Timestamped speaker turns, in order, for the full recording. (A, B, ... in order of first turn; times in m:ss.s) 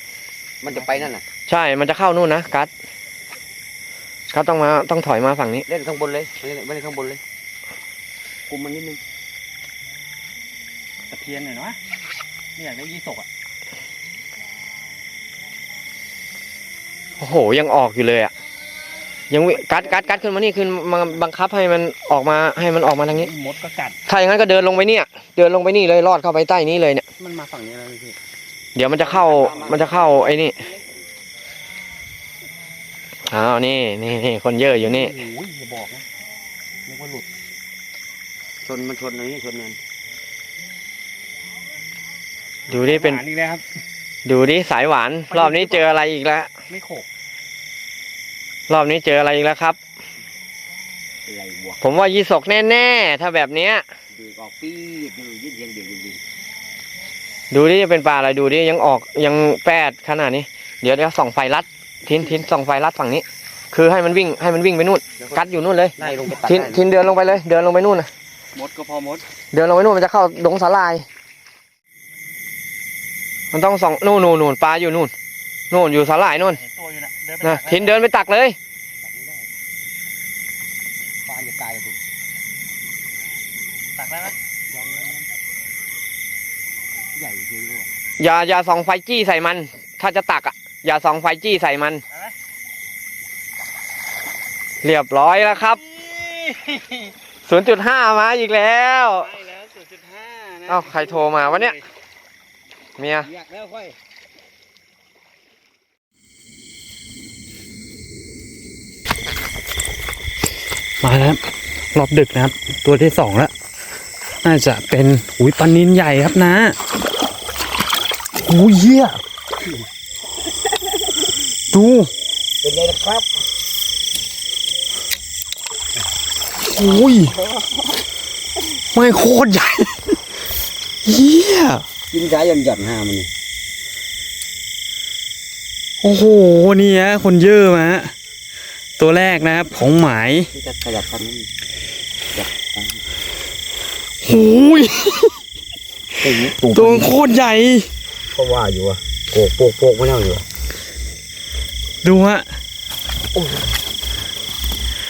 0:00.6-0:01.2 A
0:01.5-0:02.7 B
0:04.3-0:05.6 B
0:05.7-0:07.2 A
0:08.5-0:09.0 A
0:11.1-0:11.8 C
0:12.6-0:13.2 C
0:17.2-0:18.3 B
0:19.3-0:23.3 B
0:19.6-0:20.2 A
0:23.2-0:24.0 C
0:24.0-0:27.0 B
0:27.2-0:28.2 C
0:28.8-0:30.6 B
0:29.0-0:30.4 A
0:33.3-0:35.2 B
0:34.8-0:36.0 C
0:36.9-0:37.2 C
0:38.6-0:39.8 A
0:42.7-0:43.2 B
0:42.7-0:43.6 C
0:44.2-0:46.5 B
0:45.3-0:45.9 C
0:46.7-0:47.0 C
0:48.7-0:49.8 B
0:51.2-0:51.8 A
0:51.8-0:53.8 B
0:54.1-0:56.2 A
0:57.5-1:08.1 B
1:05.2-1:05.4 A
1:06.0-1:06.9 A
1:06.0-1:06.3 C
1:08.6-1:09.2 C
1:09.5-1:11.0 B
1:13.5-1:15.1 B
1:15.7-1:16.6 B
1:16.5-1:18.0 C
1:17.4-1:18.6 B
1:19.0-1:19.5 A
1:21.2-1:22.0 A
1:24.0-1:24.3 C
1:24.7-1:25.3 A
1:27.1-1:27.9 A
1:28.2-1:32.0 B
1:34.8-1:35.8 B
1:36.0-1:37.1 C
1:37.4-1:39.4 B
1:39.3-1:41.8 C
1:40.7-1:41.8 B
1:43.0-1:43.3 B
1:43.2-1:43.9 A
1:51.0-1:51.4 C
1:51.9-1:53.5 C
1:54.4-1:56.8 C
1:58.4-1:59.2 C
2:01.7-2:02.1 C
2:02.6-2:03.3 A
2:06.6-2:07.3 C
2:08.9-2:10.1 C
2:11.0-2:11.8 C
2:12.1-2:13.3 A
2:16.0-2:18.1 C
2:19.0-2:20.5 C
2:20.5-2:21.5 A
2:22.3-2:23.0 A
2:24.2-2:25.4 C
2:26.2-2:27.2 A
2:26.5-2:27.9 C
2:28.3-2:30.4 A
2:32.0-2:32.4 C